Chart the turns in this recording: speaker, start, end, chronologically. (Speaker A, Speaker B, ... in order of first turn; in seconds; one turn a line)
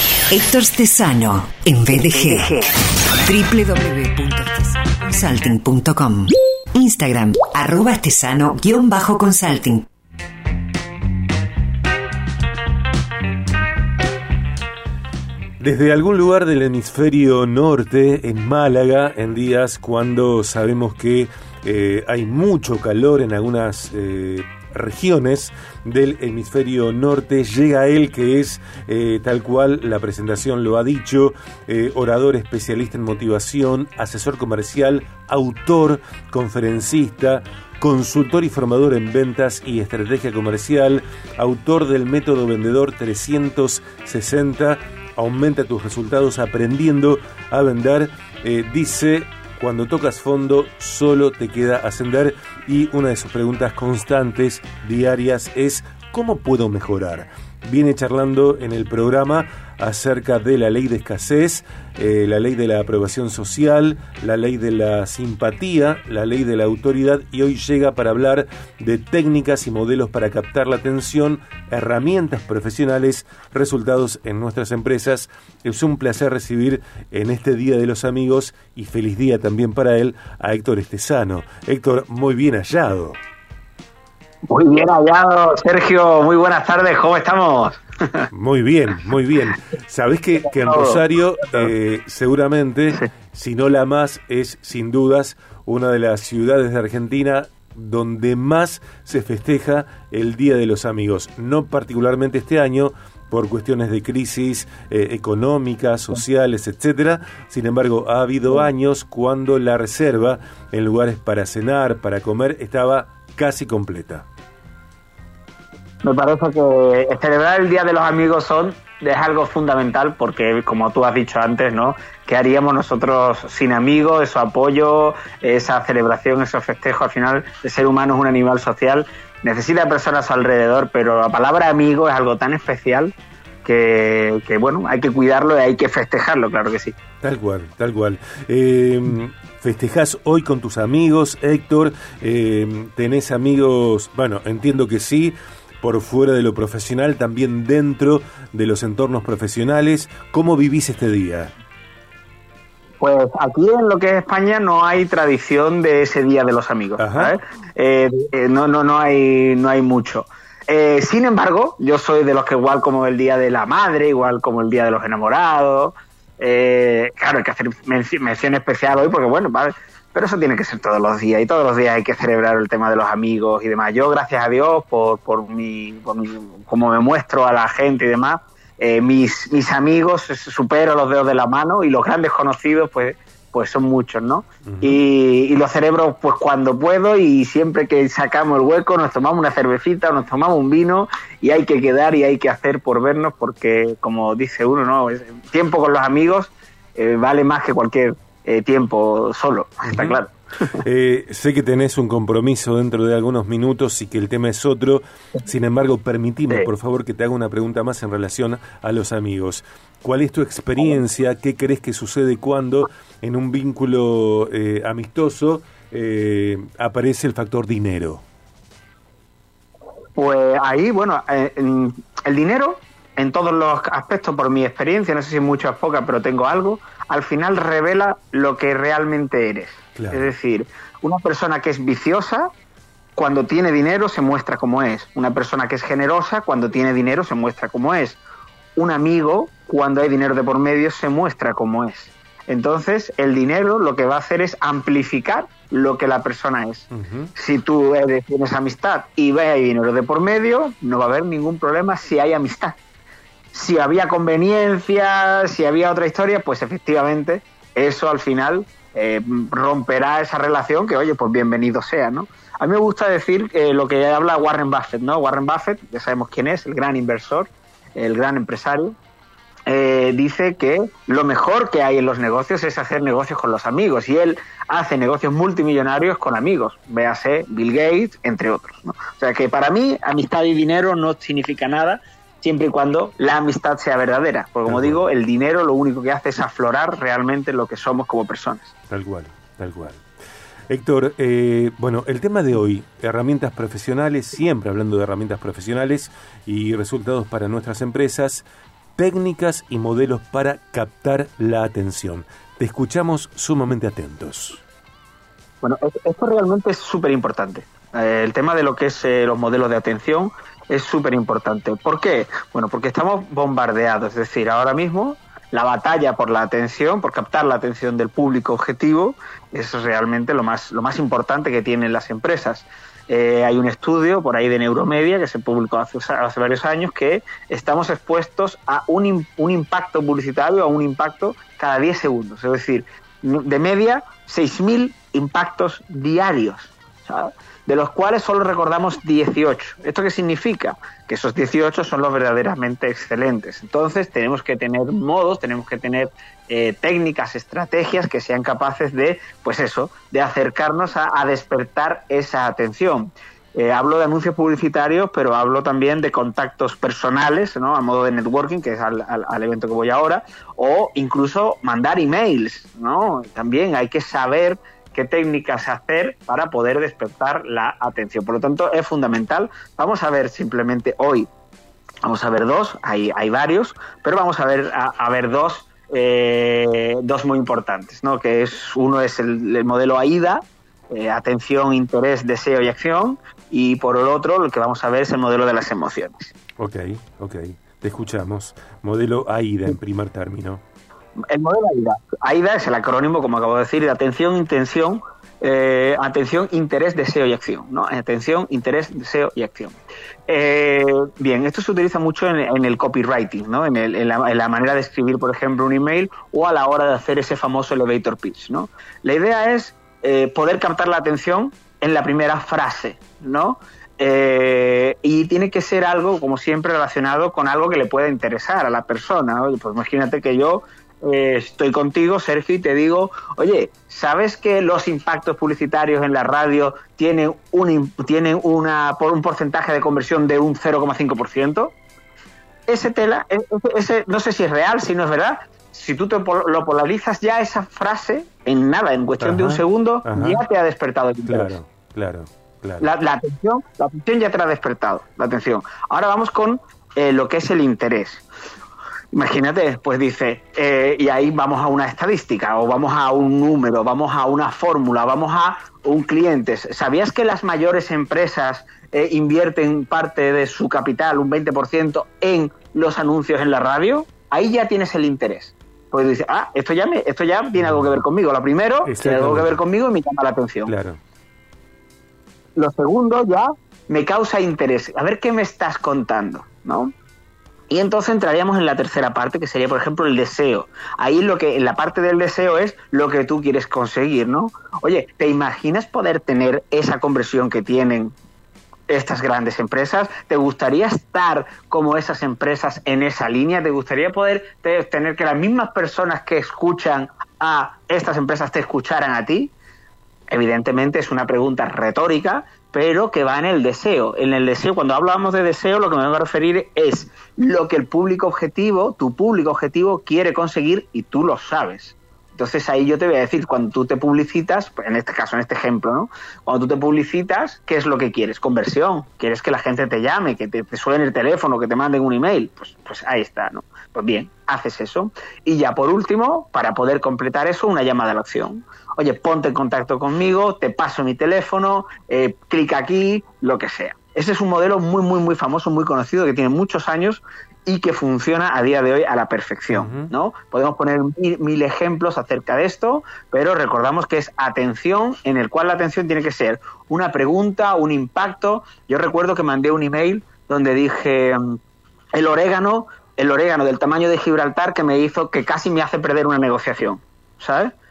Speaker A: 0.3-2.7
Speaker A: 3.2-9.9
Speaker B: 15.6-83.2
Speaker C: 84.5-88.3
Speaker B: 88.3-114.2
Speaker C: 90.4-91.7
Speaker C: 116.0-136.9
Speaker B: 137.2-151.5
Speaker C: 153.0-200.8
Speaker B: 157.0-157.4
Speaker B: 184.7-185.0
Speaker B: 199.8-200.2
Speaker B: 200.8-218.2
Speaker C: 220.1-232.5
Speaker B: 229.9-230.3
Speaker C: 233.1-238.2
Speaker C: 238.8-252.8
Speaker B: 246.9-247.3
Speaker C: 253.5-268.9
Speaker C: 269.7-288.7
Speaker B: 284.6-285.0
Speaker B: 288.9-290.0
Speaker B: 290.7-298.4
Speaker B: 299.0-304.6
Speaker C: 305.6-371.3
Speaker C: 372.0-386.3
Speaker B: 386.6-390.6
Speaker C: 391.3-431.7
Speaker C: 432.7-441.6
Speaker B: 439.2-440.4
Speaker B: 441.2-442.9
Speaker C: 442.8-448.2
Speaker C: 449.1-470.7
Speaker B: 467.6-468.0
Speaker B: 468.8-469.6
Speaker B: 470.7-471.0
Speaker C: 472.6-476.9
Speaker C: 477.7-488.1
Speaker C: 488.9-499.5
Speaker C: 500.3-551.6
Speaker B: 539.7-540.1
Speaker C: 552.1-557.7